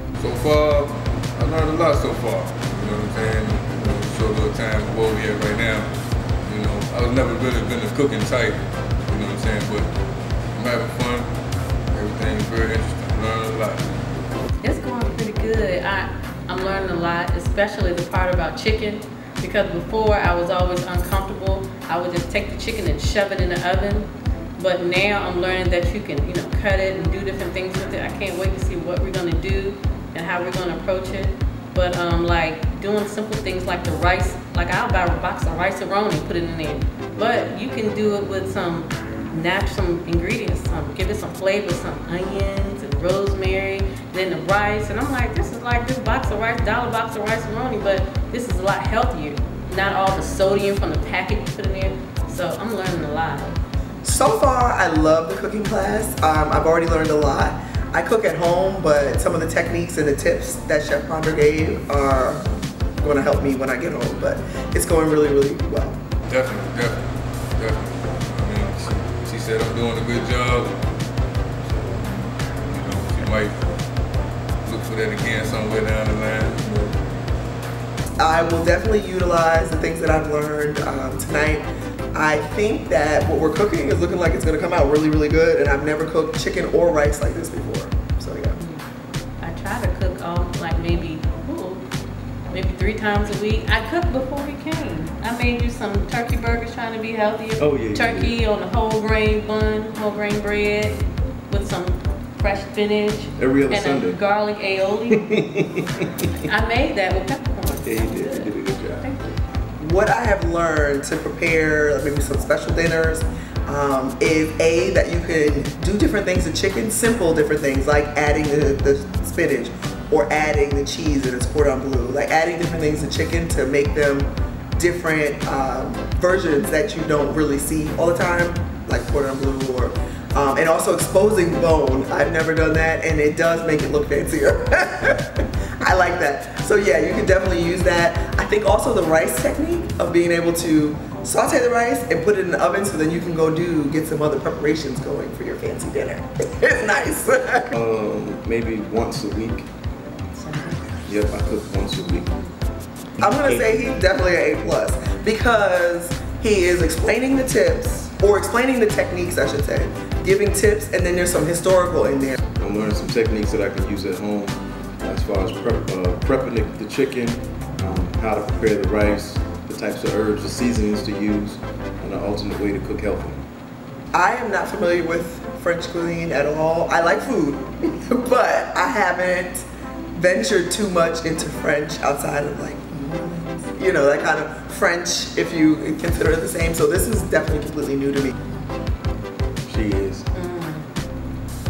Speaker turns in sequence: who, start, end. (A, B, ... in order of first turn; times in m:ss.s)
0:00.2-0:05.9 A
0:06.4-0:09.9 A
0:10.6-0:11.3 A
0:11.9-0:13.8 A
0:14.6-0:53.6 B
0:54.0-1:02.4 C
1:03.0-1:06.0 C
1:06.3-1:10.8 A
1:11.6-1:12.1 A
1:12.6-1:13.6 A
1:14.6-1:16.9 A
1:18.2-1:28.6 C
1:28.6-1:28.8 B
1:29.4-1:31.8 B
1:32.5-1:45.2 B
1:37.6-1:38.3 D
1:43.4-1:44.2 D
1:45.2-1:46.3 D
1:46.3-1:49.4 B
1:47.8-1:49.1 D
1:49.8-2:27.8 C
2:27.8-2:29.7 D
2:30.4-2:30.8 B
2:31.1-2:32.4 D
2:33.2-2:42.4 C
2:42.6-2:53.5 D
2:54.1-3:08.3 C
3:09.6-3:10.2 D
3:10.3-3:10.9 B